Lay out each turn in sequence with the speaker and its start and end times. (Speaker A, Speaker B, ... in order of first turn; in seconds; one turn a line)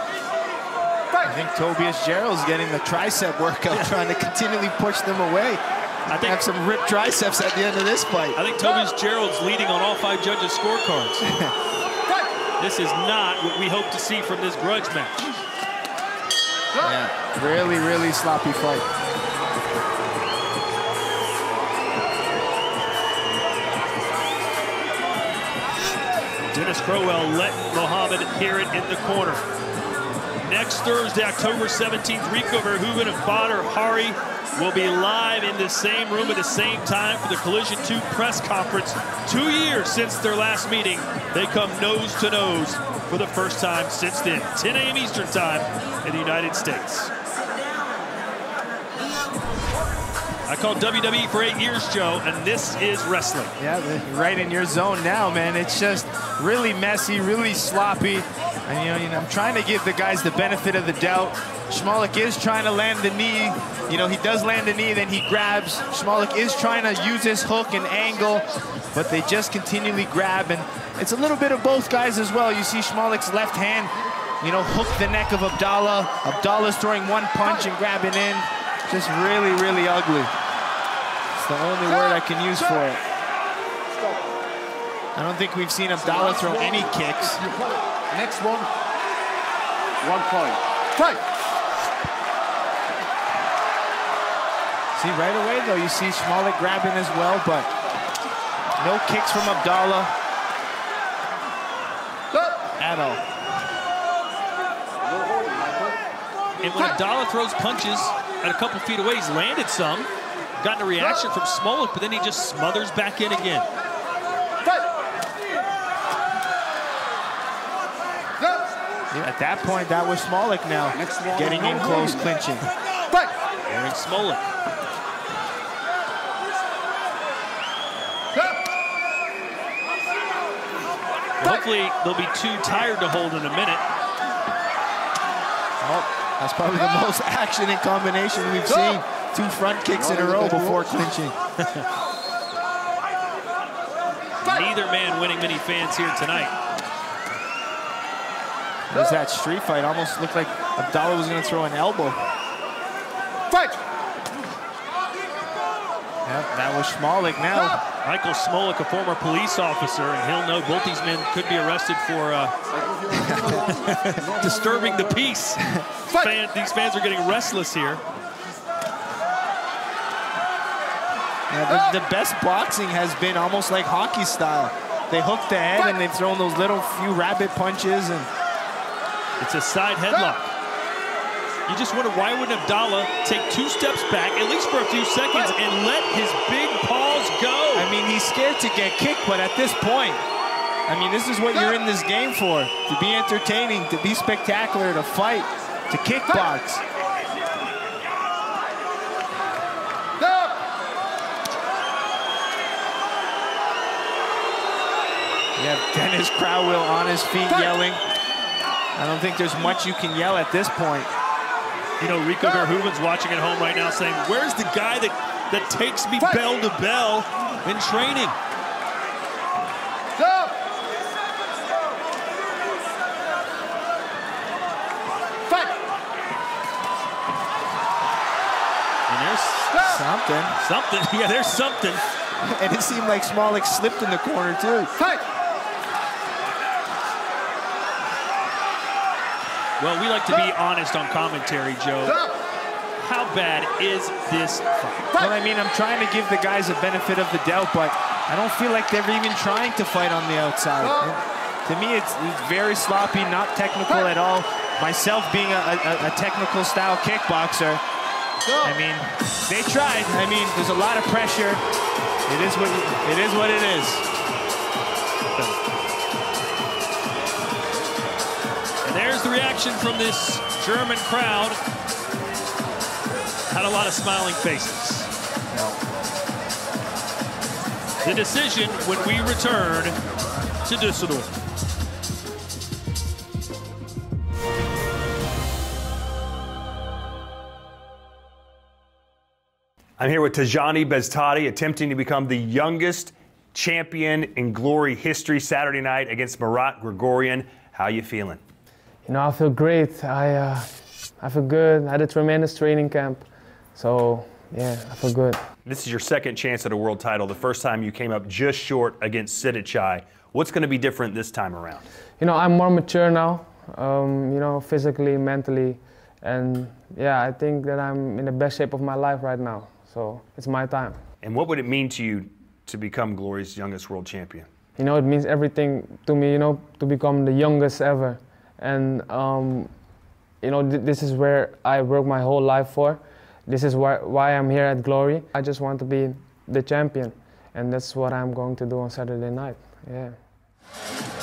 Speaker A: 1.2-8.4
Speaker B: 6.1-6.4
Speaker B: 8.3-11.2
Speaker A: 11.2-11.5
Speaker B: 12.6-15.2
Speaker A: 16.8-18.8
Speaker B: 26.5-29.4
Speaker B: 30.4-47.1
Speaker B: 50.5-53.5
Speaker A: 53.6-80.3
Speaker A: 81.3-83.0
Speaker A: 85.1-87.5
Speaker C: 88.1-88.7
Speaker C: 90.0-91.2
Speaker A: 94.9-97.7
Speaker A: 98.8-100.1
Speaker A: 102.8-103.2
Speaker B: 106.6-113.7
Speaker A: 119.1-122.7
Speaker C: 121.5-121.7
Speaker B: 123.7-124.4
Speaker B: 131.4-133.8
Speaker A: 135.8-141.3
Speaker B: 144.4-146.5
Speaker A: 148.9-152.2
Speaker A: 156.2-157.8
Speaker B: 158.0-162.5
Speaker A: 163.1-163.6
Speaker B: 163.4-168.0
Speaker A: 171.5-178.3
Speaker B: 179.4-180.5
Speaker B: 181.7-187.9
Speaker A: 187.7-190.2
Speaker A: 190.9-196.8
Speaker A: 205.6-208.0
Speaker A: 208.9-211.1
Speaker B: 212.0-218.3
Speaker B: 229.1-229.8
Speaker A: 229.8-230.6
Speaker B: 230.6-232.0
Speaker A: 232.4-234.9
Speaker B: 239.8-242.3
Speaker B: 243.0-245.1
Speaker A: 245.2-257.8
Speaker A: 258.6-261.6
Speaker A: 262.3-264.0
Speaker B: 268.8-271.6
Speaker B: 273.5-275.7
Speaker B: 278.0-279.9
Speaker B: 280.6-281.3
Speaker D: 290.0-298.4
Speaker E: 299.0-305.4
Speaker D: 305.6-311.8
Speaker E: 312.2-321.0
Speaker D: 321.2-324.5
Speaker E: 324.8-329.7
Speaker E: 330.4-340.2